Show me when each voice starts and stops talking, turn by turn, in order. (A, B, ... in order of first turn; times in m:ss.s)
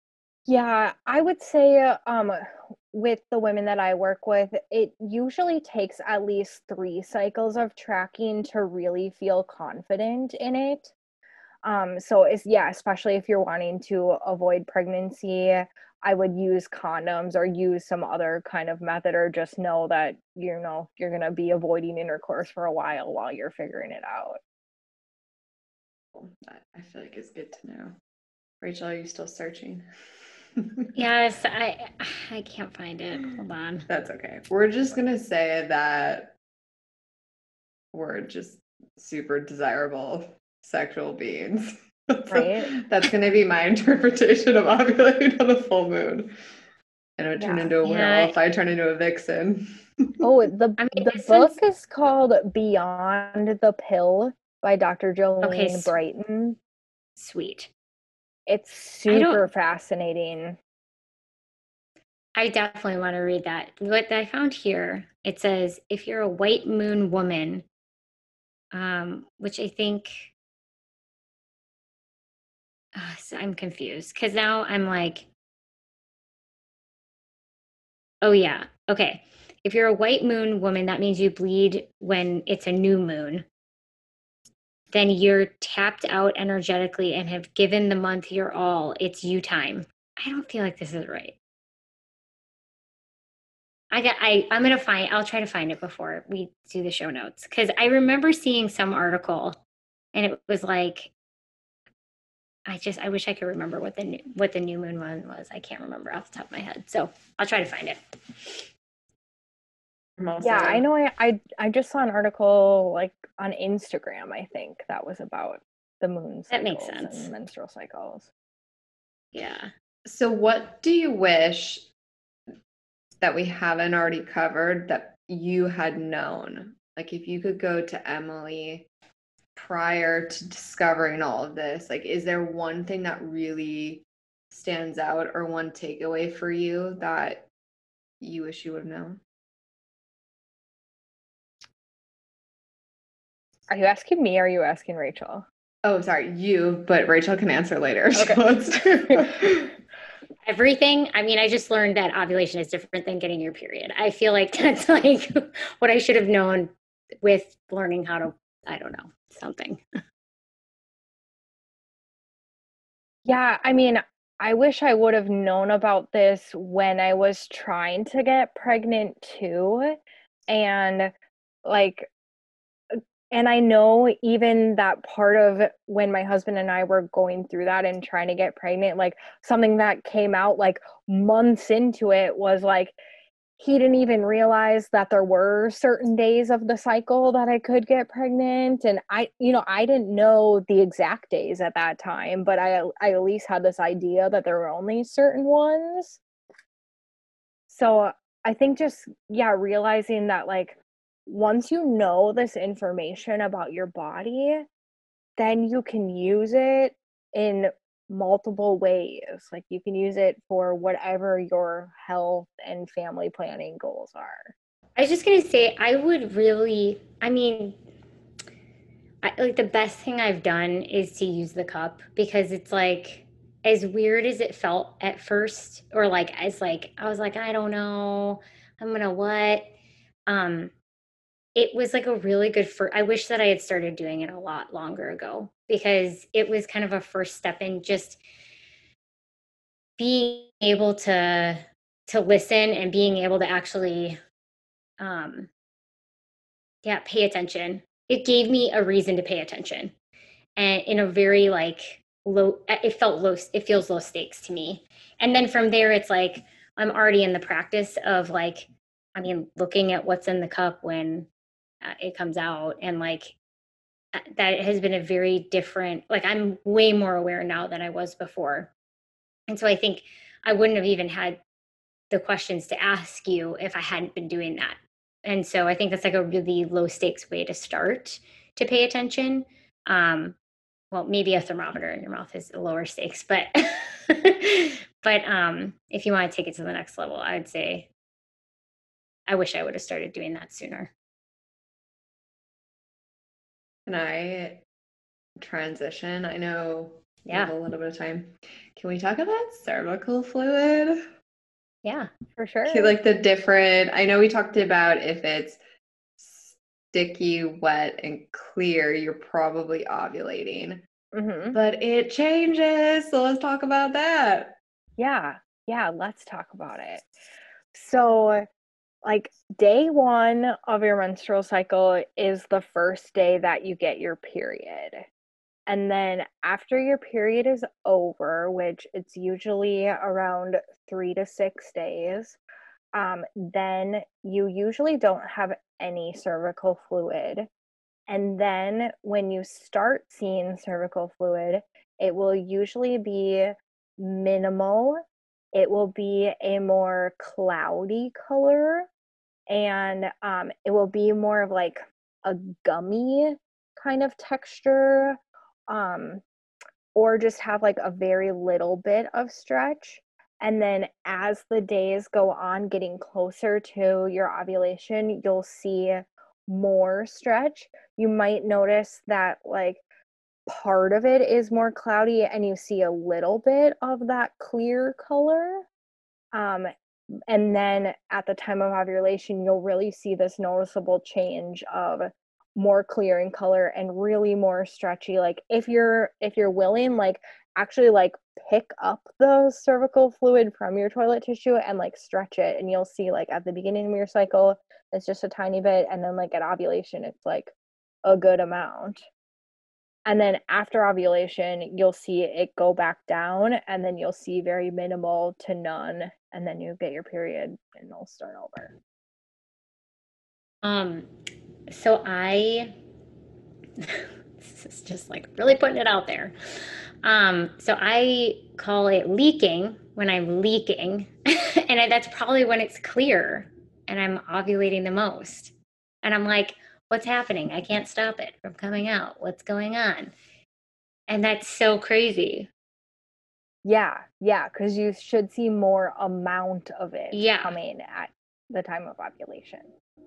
0:00.5-0:10.9 A
0:11.6-0:24.4 A
0:26.1-0:28.0 B
0:28.6-0:29.8 B
0:30.6-0:30.9 B
0:31.0-0:33.9 C
0:33.9-0:36.4 B
0:37.9-0:46.3 B
0:42.3-0:42.7 A
0:47.2-0:50.1 B
0:47.4-0:47.7 A
0:47.8-0:48.4 C
0:50.2-0:56.6 A
0:50.8-0:51.6 C
0:55.4-0:56.0 C
0:57.2-0:57.7 C
0:58.5-1:00.6 A
0:59.1-0:59.4 C
1:02.4-1:07.7 C
1:08.7-1:10.3 C
1:13.0-1:15.3 C
1:18.2-1:23.4 C
1:24.9-1:31.4 C
1:33.9-1:39.6 C
1:40.1-1:41.1 C
1:42.7-1:48.6 C
1:50.2-1:50.8 B
1:50.4-1:58.3 A
1:56.5-1:57.3 C
1:59.3-1:59.7 C
2:00.1-2:01.9 B
2:03.2-2:08.9 B
2:09.6-2:17.5 B
2:18.2-2:19.2 B
2:23.7-2:25.4 A
2:25.8-2:29.7 B
2:28.1-2:28.4 A
2:29.0-2:29.4 A
2:30.4-2:36.7 C
2:37.2-2:39.8 C
2:43.2-2:51.1 A
2:51.6-2:52.1 A
2:52.9-3:03.0 A
3:03.6-3:16.2 A
3:17.7-3:24.7 A
3:25.4-3:34.5 A
3:35.0-3:37.8 C
3:39.2-3:49.7 C
3:50.3-3:50.7 C
3:51.6-3:58.2 C
4:00.0-4:04.2 C
4:05.0-4:05.5 C
4:06.8-4:09.9 C
4:10.6-4:21.3 C
4:21.8-4:23.4 C
4:24.1-4:28.7 C
4:29.5-4:31.4 C
4:32.1-4:40.4 C
4:40.9-4:47.9 C
4:49.3-4:50.9 C
4:53.9-4:54.6 B
4:55.4-5:01.0 B
4:57.3-4:57.5 C
5:01.8-5:02.1 C
5:02.4-5:03.0 A
5:02.7-5:05.6 B
5:06.2-5:10.8 B
5:11.1-5:11.6 A
5:11.5-5:14.6 B
5:15.0-5:17.1 A
5:17.7-5:18.5 A
5:19.0-5:25.1 A
5:25.7-5:32.4 A
5:32.9-5:37.5 A
5:38.1-5:48.9 A
5:49.5-5:56.2 A
5:57.0-6:09.8 A
6:10.5-6:15.7 A
6:16.3-6:16.7 A
6:17.3-6:37.5 A
6:38.0-6:39.1 A
6:40.1-6:48.8 A
6:50.6-6:51.1 C
6:51.7-6:52.7 C
6:53.8-7:10.1 C
7:11.1-7:12.5 C
7:13.6-7:19.7 A
7:17.1-7:17.6 C